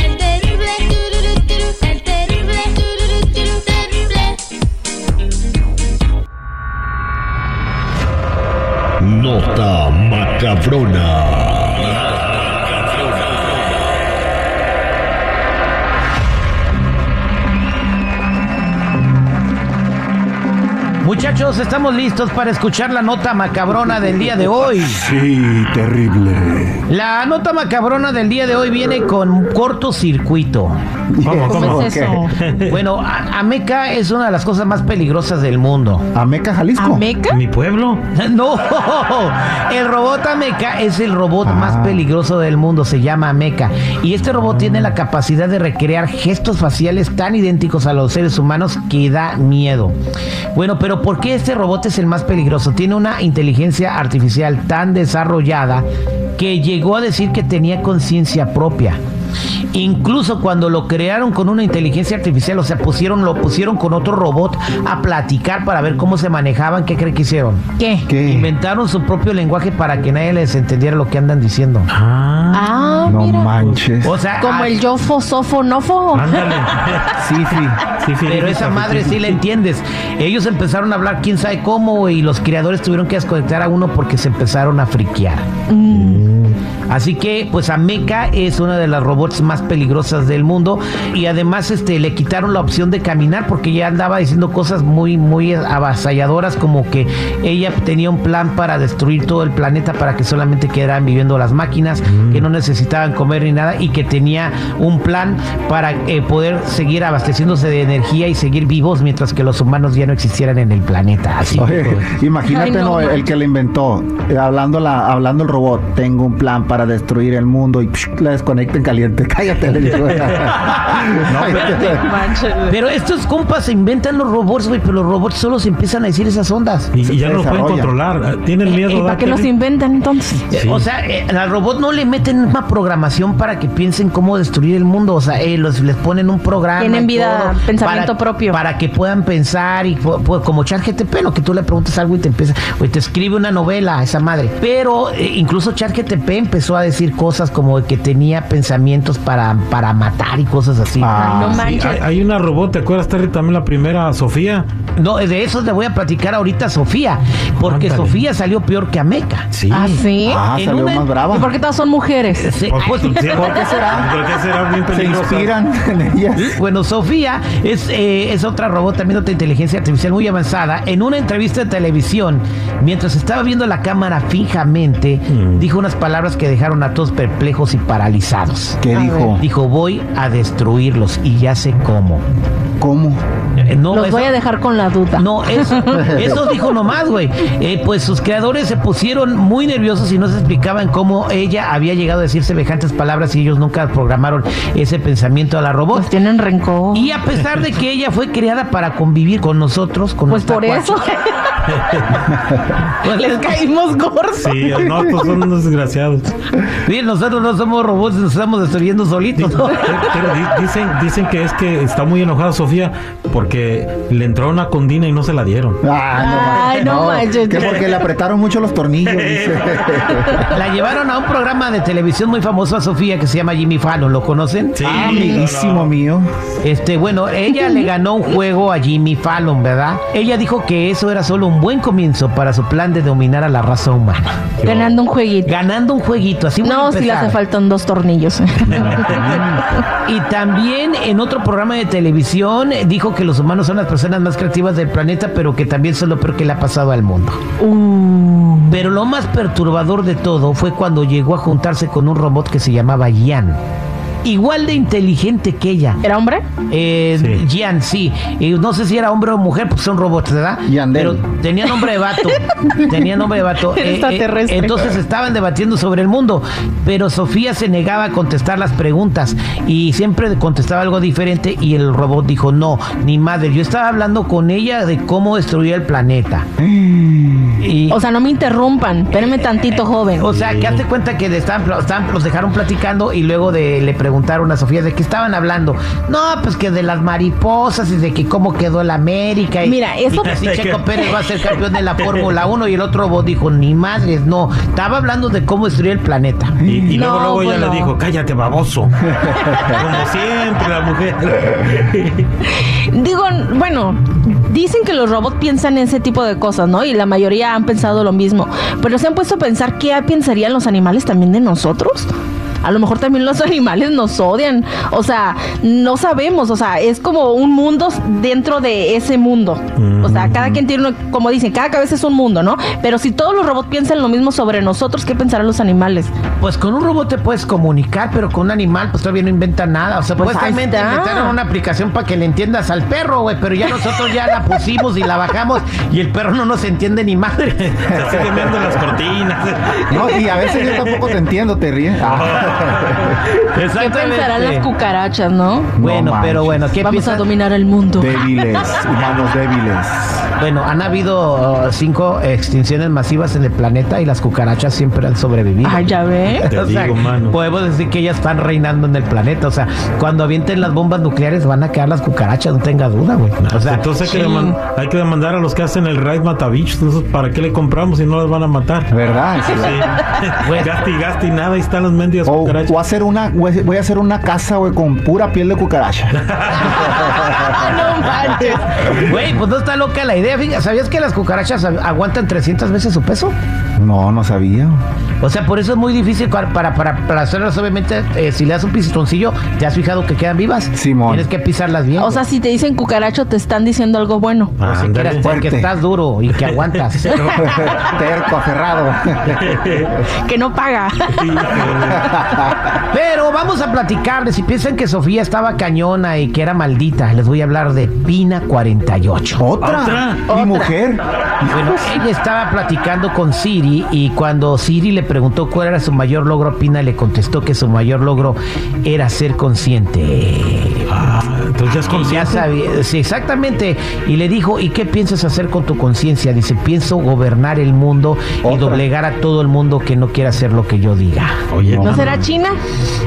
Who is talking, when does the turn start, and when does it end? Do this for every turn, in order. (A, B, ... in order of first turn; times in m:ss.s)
0:09.0-0:11.7 A
0:21.0-0:25.0 B
0:25.0-0:26.8 C
0:26.9-0:30.7 B
0:31.1-0:32.2 C
0:31.2-0:32.7 D
0:31.5-0:32.3 E
0:32.6-0:36.1 B
0:36.1-0:37.0 C
0:36.8-0:37.4 E
0:37.3-0:38.0 D
0:38.1-0:49.9 B
0:41.4-0:42.0 C
0:50.5-0:55.8 B
0:56.4-0:59.0 B
0:59.7-1:07.7 B
1:07.8-1:08.1 E
1:08.1-1:08.5 C
1:08.2-1:11.9 B
1:11.9-1:12.7 D
1:12.5-1:13.6 E
1:13.0-1:14.1 C
1:14.0-1:14.8 B
1:14.4-1:16.6 E
1:16.1-1:17.3 D
1:17.2-1:17.8 C
1:18.0-1:19.4 D
1:18.2-1:25.5 B
1:25.7-1:26.2 E
1:25.9-1:26.6 D
1:26.9-1:52.2 B
1:42.1-1:42.4 D
1:51.5-2:02.1 C
1:52.4-1:53.2 E
2:00.5-2:01.8 B
2:01.2-2:02.0 D
2:01.6-2:02.7 E
2:02.6-2:06.9 B
2:06.9-2:09.6 D
2:07.0-2:07.9 C
2:08.6-2:10.4 E
2:10.5-2:31.2 B
2:16.8-2:18.6 E
2:31.0-2:31.7 C
2:31.2-2:32.0 E
2:31.6-2:34.7 D
2:35.0-2:39.5 B
2:37.7-2:38.2 D
2:39.5-2:40.0 D
2:39.7-2:40.5 E
2:40.2-2:41.5 C
2:40.5-2:41.2 B
2:41.3-2:43.8 E
2:42.3-2:43.3 B
2:42.7-2:45.5 D
2:43.3-2:44.1 C
2:44.9-2:46.6 C
2:46.4-2:58.8 B
2:55.3-2:55.6 D
2:58.8-2:59.4 C
2:58.9-2:59.3 E
2:59.3-3:02.2 B
3:02.8-3:03.2 C
3:03.6-3:04.3 B
3:03.9-3:06.6 E
3:05.1-3:16.1 B
3:06.0-3:06.2 C
3:15.9-3:17.2 E
3:16.9-3:21.1 B
3:20.3-3:21.6 E
3:21.6-3:22.3 D
3:22.8-3:25.2 E
3:23.1-3:23.6 B
3:24.4-3:26.3 D
3:26.7-3:30.0 B
3:29.4-3:35.8 D
3:35.8-3:40.4 C
3:36.1-3:37.7 E
3:39.0-3:39.9 D
3:40.2-3:40.5 E
3:40.4-3:44.9 B
3:44.8-3:45.9 D
3:44.8-3:46.3 C
3:45.0-3:45.4 E
3:46.6-3:54.6 B
3:47.5-3:47.8 E
3:54.6-3:55.0 D
3:54.6-3:55.5 E
3:55.4-3:57.4 B
3:56.6-3:59.8 E
3:58.6-3:59.0 D
3:59.1-3:59.6 C
4:00.0-4:07.4 B
4:07.6-4:08.8 E
4:08.7-4:13.6 B
4:14.2-4:16.0 B
4:16.0-4:16.5 E
4:16.6-4:36.4 B
4:20.7-4:21.2 C
4:21.7-4:23.0 E
4:23.6-4:24.9 E
4:36.6-4:37.6 C
4:37.6-4:38.0 B
4:37.9-4:40.3 E
4:40.1-4:56.6 B
4:40.3-4:40.8 D
4:49.6-4:50.4 E
4:50.3-4:50.9 D
4:56.6-4:56.9 C
4:56.6-5:02.3 D
4:56.9-4:57.9 E
5:02.4-5:12.1 E
5:12.6-5:26.1 E
5:19.8-5:20.6 D
5:26.4-5:37.8 B
5:30.2-5:31.4 E
5:37.6-5:41.1 D
5:37.9-5:38.6 C
5:39.9-5:43.2 C
5:42.0-5:43.3 D
5:43.4-5:44.7 B
5:43.7-5:45.8 E
5:45.8-5:46.7 C
5:45.8-5:47.2 B
5:46.8-5:48.7 E
5:48.0-5:50.2 C
5:50.4-6:03.9 B
5:55.6-5:56.5 E
5:56.5-5:57.4 D
6:03.4-6:08.9 D
6:04.0-6:04.6 E
6:08.9-6:10.0 C
6:09.5-6:12.7 D
6:10.4-6:10.8 B
6:12.2-6:16.1 C
6:16.1-6:17.5 D
6:16.7-6:17.6 C
6:17.3-6:19.0 E
6:18.5-6:23.3 B
6:23.8-6:24.8 C
6:25.2-6:32.2 B
6:30.7-6:31.3 C
6:31.9-6:34.5 E
6:34.6-6:35.3 D
6:34.6-6:37.2 B
6:35.2-6:35.7 C
6:37.0-6:37.7 D
6:37.1-6:37.8 E
6:37.3-6:40.1 C
6:39.4-6:39.9 D
6:40.1-6:41.5 E
6:41.1-6:42.3 D
6:41.7-6:42.7 C
6:42.8-6:49.5 B
6:49.4-6:51.8 C
6:49.6-6:50.3 D
6:50.3-6:50.7 E
6:51.4-7:00.9 B
7:00.9-7:02.4 D
7:01.9-7:11.4 B
7:08.4-7:08.8 C
7:11.5-7:12.2 D
7:11.7-7:12.2 C
7:11.8-7:12.6 E